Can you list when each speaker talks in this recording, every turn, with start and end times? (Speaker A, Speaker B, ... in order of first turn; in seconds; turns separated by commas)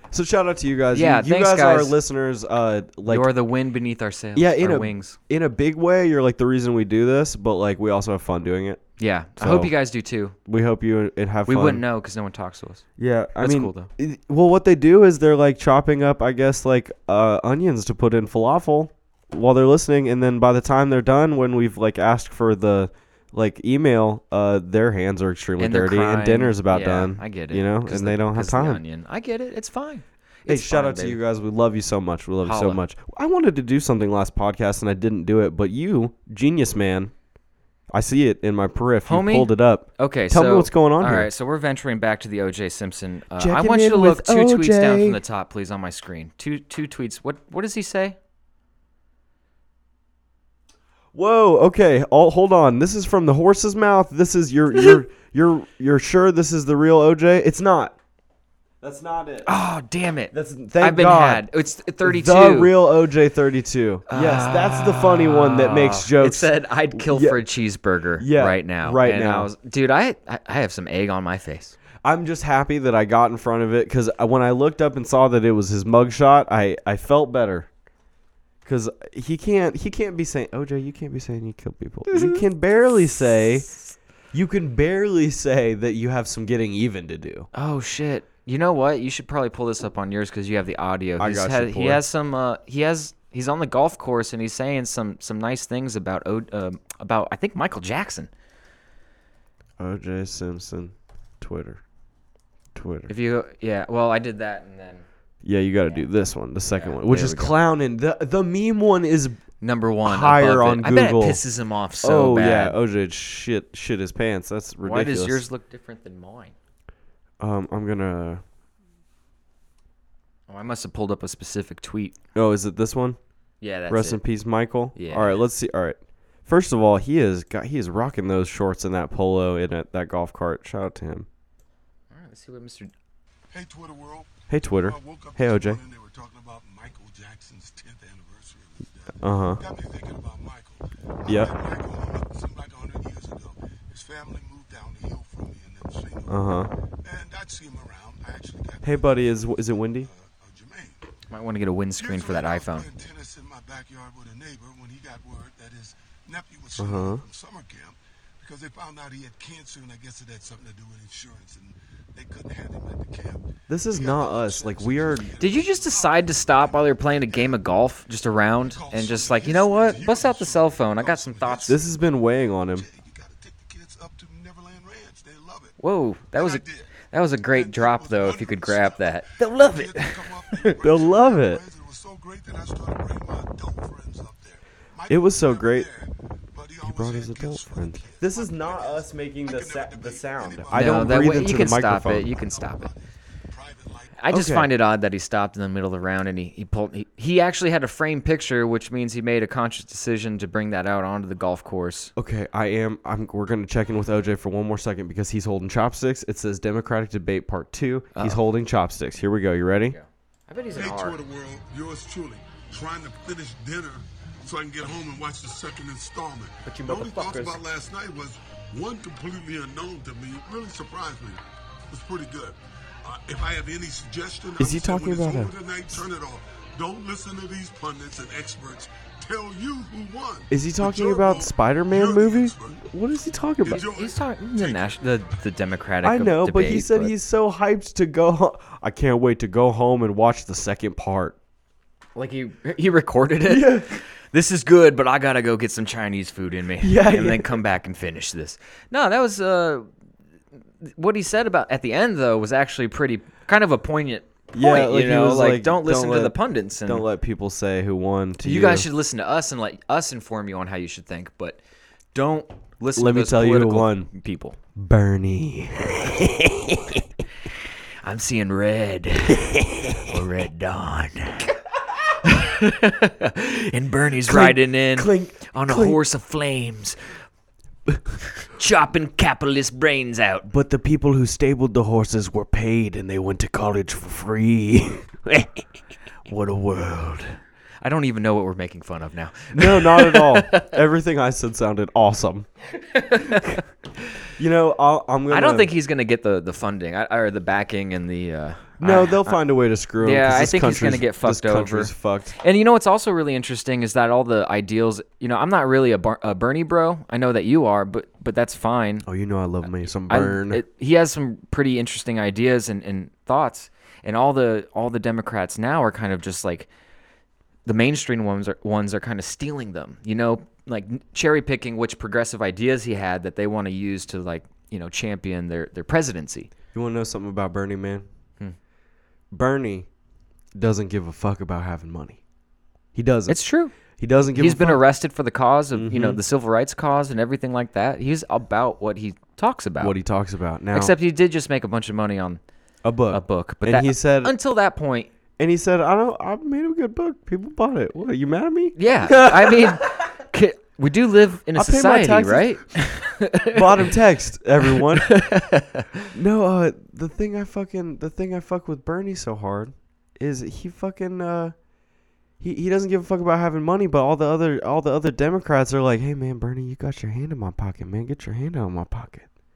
Speaker A: 0.1-3.3, Speaker B: 0.9-2.0, Speaker B: 3.1-5.2, Speaker A: 4.3-8.8, Speaker B: 9.0-10.4, Speaker A: 9.4-9.7, Speaker A: 10.5-11.8, Speaker B: 11.5-12.8, Speaker A: 13.0-28.8, Speaker B: 13.4-13.9, Speaker B: 25.6-31.2, Speaker A: 30.5-37.1, Speaker B: 32.4-32.8, Speaker A: 37.9-41.3, Speaker B: 39.1-48.1, Speaker A: 43.4-45.2, Speaker A: 51.1-58.0, Speaker A: 58.8-59.5, Speaker B: 59.5-62.7, Speaker A: 60.3-61.5, Speaker A: 62.0-67.4, Speaker B: 64.1-71.8, Speaker A: 68.2-69.5, Speaker A: 72.0-77.7, Speaker A: 78.6-83.7, Speaker B: 82.1-82.4, Speaker A: 84.3-87.5, Speaker B: 87.5-98.3, Speaker A: 91.2-92.0, Speaker A: 99.8-101.8, Speaker A: 102.8-103.1, Speaker B: 103.1-105.1, Speaker A: 105.4-109.4, Speaker B: 106.7-107.5, Speaker B: 109.6-112.8, Speaker A: 110.0-111.4, Speaker A: 112.0-115.4, Speaker B: 114.8-116.5, Speaker A: 117.4-118.4, Speaker B: 120.5-122.1, Speaker A: 122.3-123.2, Speaker B: 123.6-124.2, Speaker A: 123.9-131.3, Speaker B: 125.0-125.4, Speaker B: 132.1-132.9, Speaker C: 133.5-151.0, Speaker A: 134.5-135.8, Speaker A: 139.2-139.6, Speaker A: 141.2-141.5, Speaker A: 146.3-146.7, Speaker A: 148.8-150.1, Speaker B: 151.3-152.9, Speaker C: 152.0-167.6, Speaker A: 156.8-157.2, Speaker A: 163.7-165.3, Speaker B: 165.4-171.8, Speaker C: 168.6-172.0, Speaker A: 171.7-172.9, Speaker C: 172.7-175.8, Speaker B: 175.8-180.8, Speaker C: 176.3-177.0, Speaker C: 177.5-194.2, Speaker A: 180.8-181.6, Speaker A: 185.1-185.9, Speaker A: 186.8-192.3, Speaker B: 190.7-192.9, Speaker B: 194.2-202.1, Speaker A: 194.3-194.7, Speaker A: 202.2-210.0, Speaker B: 208.1-208.4, Speaker B: 209.9-211.2, Speaker C: 210.8-232.8, Speaker B: 216.7-217.6, Speaker A: 224.6-225.5, Speaker A: 230.5-233.8, Speaker C: 233.7-235.0, Speaker B: 233.7-237.1, Speaker A: 236.0-241.3, Speaker B: 242.2-249.9, Speaker A: 243.5-243.9, Speaker A: 246.8-247.6, Speaker B: 250.8-257.1, Speaker A: 254.5-258.9, Speaker B: 258.4-261.6, Speaker B: 262.1-264.6, Speaker A: 263.0-264.1, Speaker A: 264.8-267.0, Speaker B: 268.0-271.5, Speaker A: 269.4-270.0, Speaker B: 272.2-277.0, Speaker A: 274.2-276.0, Speaker B: 278.5-280.5, Speaker A: 280.5-285.6, Speaker A: 286.3-287.4, Speaker B: 287.8-290.8, Speaker A: 289.5-292.5, Speaker B: 292.8-293.6, Speaker A: 293.2-293.6, Speaker A: 294.4-295.7, Speaker B: 295.3-299.4, Speaker A: 298.8-302.3, Speaker B: 300.0-309.1, Speaker A: 309.0-310.6, Speaker B: 310.1-316.7, Speaker B: 317.6-326.5, Speaker A: 326.7-328.1, Speaker A: 329.3-329.9, Speaker A: 330.6-332.2, Speaker A: 332.9-333.4, Speaker B: 333.3-333.7, Speaker A: 334.0-334.8, Speaker B: 334.3-339.9, Speaker A: 335.8-336.2, Speaker A: 339.8-340.9, Speaker B: 340.7-342.4, Speaker A: 342.8-344.3, Speaker B: 343.1-345.1, Speaker A: 345.4-349.9, Speaker B: 348.8-354.0, Speaker A: 351.5-352.6, Speaker A: 353.5-355.1, Speaker B: 354.7-356.1, Speaker A: 356.1-361.5, Speaker A: 362.4-369.3